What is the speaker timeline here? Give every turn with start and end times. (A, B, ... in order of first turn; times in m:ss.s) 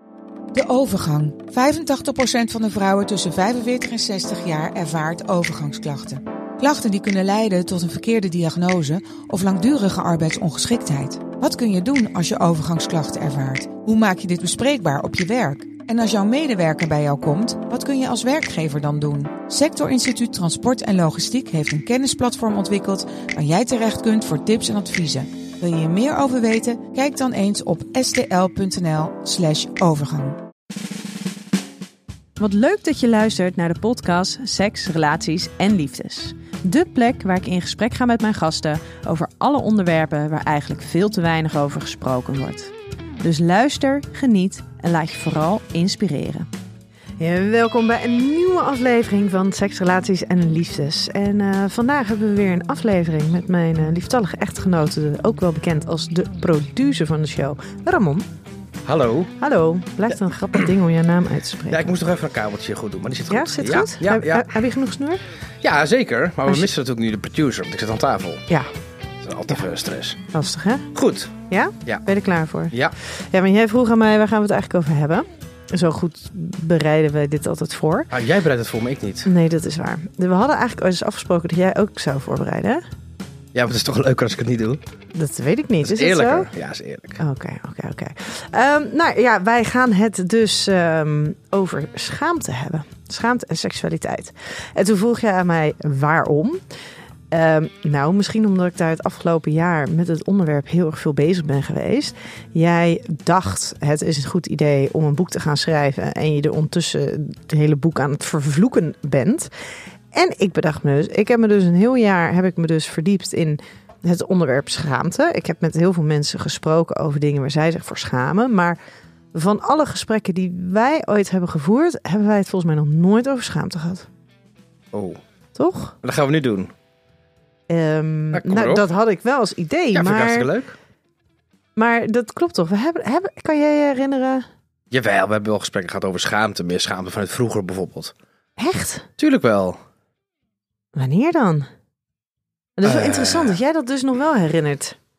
0:00.5-0:30.4 A
0:32.4-0:46.5 B
0:47.2-0:58.2 B
0:58.8-0:59.3 C
0:59.4-1:01.9 B
1:00.1-1:00.7 C
1:01.7-1:04.6 C
1:03.3-1:05.2 B
1:05.6-1:08.4 C
1:09.2-1:10.2 C
1:10.3-1:10.9 B
1:10.9-1:11.3 C
1:11.5-1:18.1 B
1:18.1-1:19.3 C
1:19.2-1:22.8 B
1:23.5-1:24.8 C
1:25.1-1:26.5 B
1:25.8-1:27.2 C
1:27.2-1:36.6 B
1:37.3-1:49.5 B
1:50.1-1:58.8 B
1:59.3-2:04.1 B
2:04.9-2:05.2 C
2:05.5-2:05.9 B
2:06.0-2:06.7 C
2:07.7-2:10.5 B
2:08.3-2:08.9 C
2:09.9-2:10.7 C
2:11.8-2:14.4 B
2:14.9-2:18.1 C
2:18.6-2:19.1 B
2:19.2-2:19.8 C
2:20.9-2:21.7 B
2:22.8-2:25.0 B
2:22.8-2:23.6 C